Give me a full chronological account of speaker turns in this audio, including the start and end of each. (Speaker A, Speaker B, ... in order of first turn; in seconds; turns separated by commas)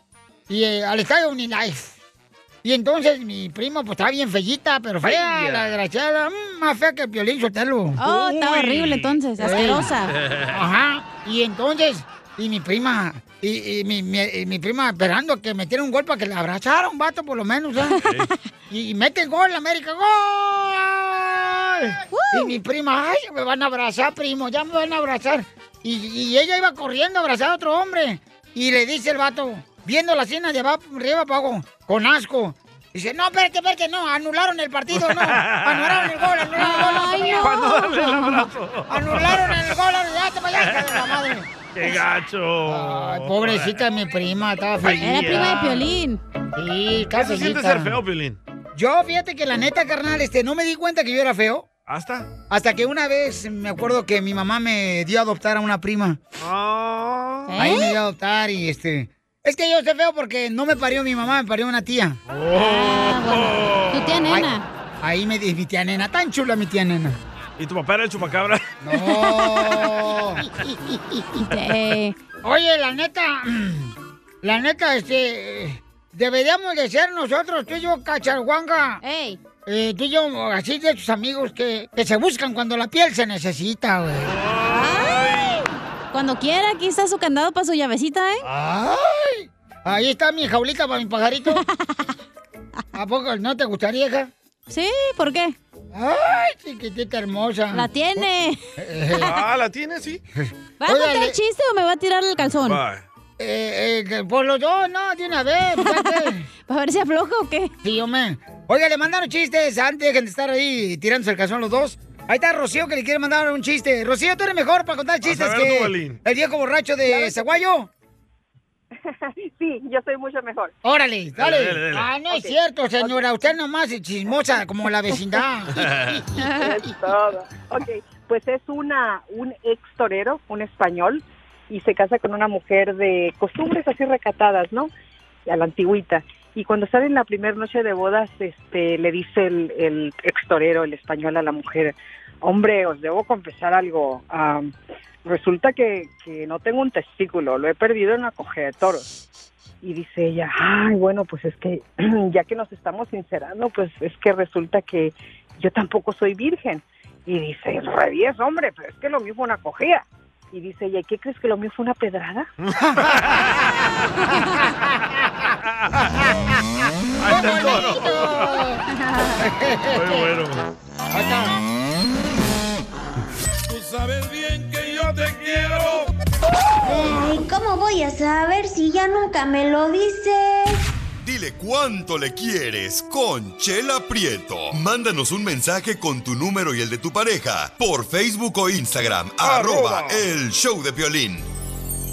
Speaker A: 0.5-1.9, Speaker A: 2.6-8.8, Speaker B: 5.0-5.7, Speaker C: 8.0-10.1, Speaker B: 8.7-9.2, Speaker A: 9.4-9.9, Speaker A: 10.5-18.0, Speaker C: 18.0-18.3, Speaker B: 18.0-18.3, Speaker A: 18.7-37.5, Speaker C: 22.1-22.5, Speaker B: 34.9-36.2, Speaker C: 36.5-38.1, Speaker B: 37.4-39.7, Speaker A: 38.9-41.5, Speaker B: 40.6-41.1, Speaker B: 41.7-43.8, Speaker A: 42.7-45.8, Speaker B: 44.8-45.7, Speaker C: 45.0-46.2, Speaker A: 46.5-47.9, Speaker B: 47.1-48.4, Speaker A: 48.7-51.6, Speaker B: 51.9-52.3, Speaker A: 52.5-56.2, Speaker B: 56.4-57.5, Speaker C: 57.5-57.9, Speaker A: 57.6-62.2, Speaker B: 62.3-64.4, Speaker C: 62.5-64.6, Speaker A: 64.3-67.2, Speaker B: 67.6-68.6, Speaker A: 68.8-70.4, Speaker C: 69.0-69.8, Speaker C: 71.4-72.2, Speaker A: 72.4-79.0, Speaker C: 79.0-79.4, Speaker A: 79.7-84.3, Speaker B: 84.3-85.6, Speaker C: 84.7-85.2, Speaker C: 86.1-88.4, Speaker A: 88.4-91.6, Speaker C: 91.5-92.0, Speaker A: 92.9-94.3, Speaker C: 94.7-95.5, Speaker A: 95.9-99.3, Speaker C: 97.7-98.6, Speaker B: 99.2-100.2, Speaker A: 100.4-101.4, Speaker C: 100.8-102.8, Speaker B: 102.6-103.0, Speaker A: 103.4-106.5, Speaker C: 105.8-107.7, Speaker A: 107.8-117.9, Speaker B: 115.2-116.2, Speaker D: 117.1-117.6, Speaker D: 119.0-120.7, Speaker A: 120.8-125.9, Speaker B: 121.4-122.1, Speaker D: 122.3-123.2, Speaker B: 125.8-126.2, Speaker C: 126.4-126.8, Speaker D: 126.5-134.9, Speaker D: 135.4-144.7, Speaker D: 145.2-149.1, Speaker D: 149.8-162.5, Speaker B: 162.6-163.9, Speaker B: 165.6-166.1, Speaker B: 167.2-168.6, Speaker A: 167.3-168.8, Speaker A: 169.4-170.2, Speaker B: 169.9-170.6, Speaker A: 171.1-171.6, Speaker E: 173.7-176.1, Speaker F: 176.8-180.9, Speaker G: 181.2-191.5, Speaker B: 189.4-190.2